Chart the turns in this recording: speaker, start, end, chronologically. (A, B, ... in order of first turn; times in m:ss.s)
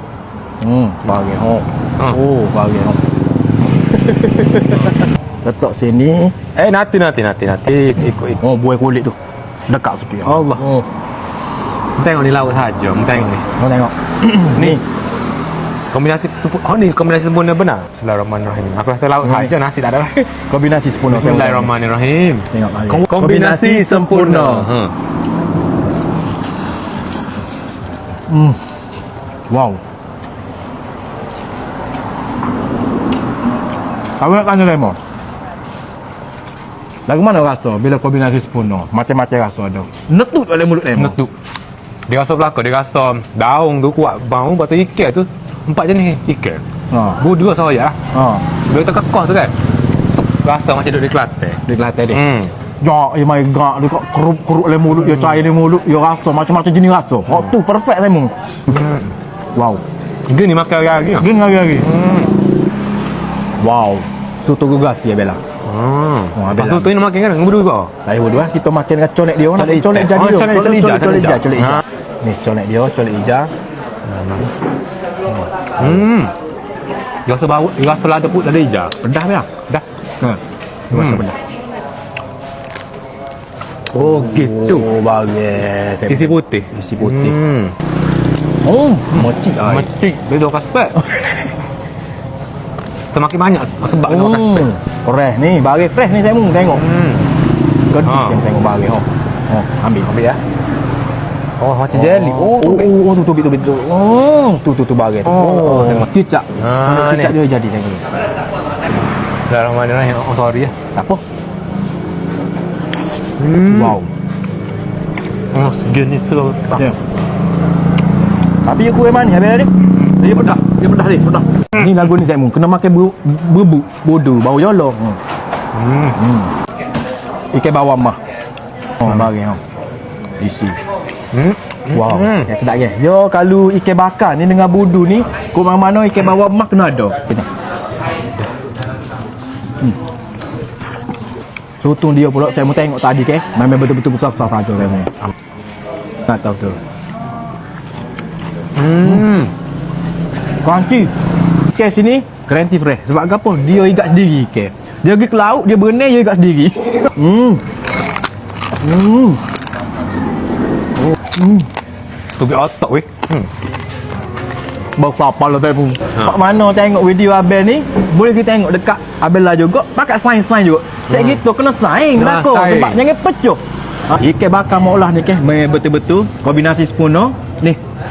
0:00.6-0:03.0 A
0:03.9-0:06.4 A
0:06.5-0:08.4 B
0:08.4-0:09.2 A
0:09.7-0:10.8 A
0:10.2-0:10.7 B
0:12.0-0:13.5 B
0:13.6-0:14.8 A
0:14.5-0:14.8 B
0:15.9-0:20.4 B
0:19.2-0:19.5 A
0:20.5-0:21.7 A
0:21.1-0:24.9 B
0:22.5-0:24.7 A
0:28.3-0:28.6 A
0:29.5-0:29.8 A
0:34.2-0:35.0 A
0:37.1-0:41.2 A
0:40.9-0:41.3 B
0:42.1-0:46.6 B
0:46.9-0:47.2 A
0:47.2-0:48.0 B
0:48.1-0:48.5 A
0:48.6-0:49.5 B
0:50.0-0:52.5 B
0:51.6-0:52.2 A
0:52.8-0:58.8 A
0:58.7-0:59.1 B
0:59.5-0:59.8 A
1:00.3-1:02.3 B
1:01.1-1:01.9 A
1:03.6-1:05.4 A
1:05.6-1:07.9 B
1:06.3-1:07.0 A
1:08.0-1:13.5 A
1:09.6-1:11.8 B
1:14.0-1:14.5 B
1:15.4-1:16.0 A
1:15.8-1:16.3 B
1:17.2-1:18.9 B
1:19.0-1:19.5 A
1:20.2-1:21.4 A
1:20.9-1:21.2 B
1:23.9-1:24.9 B
1:23.9-1:27.4 A
1:26.0-1:27.7 B
1:28.6-1:29.9 A
1:29.1-1:31.0 B
1:30.9-1:31.5 A
1:33.1-1:34.7 B
1:34.0-1:36.9 A
1:36.7-1:37.3 B
1:37.9-1:40.1 A
1:38.0-1:38.4 B
1:40.0-1:40.4 B
1:41.6-1:42.9 B
1:41.9-1:48.0 A
1:45.2-1:47.4 B
1:49.5-1:50.7 B
1:50.9-1:51.2 A
1:53.4-1:54.0 B
1:53.6-1:54.1 A
1:55.5-1:56.9 B
1:58.6-2:05.2 A
2:05.7-2:06.2 B
2:06.1-2:06.5 A
2:07.5-2:08.2 A
2:09.0-2:09.6 A
2:10.4-2:10.8 A
2:11.3-2:12.5 B
2:11.9-2:17.5 A
2:21.8-2:25.1 A
2:26.3-2:26.8 A
2:28.7-2:29.5 B
2:30.6-2:31.1 A
2:31.7-2:37.6 A
2:38.8-2:39.4 A
2:41.0-2:41.7 A
2:42.4-2:43.5 B
2:45.0-2:57.8 A
2:52.1-2:53.0 B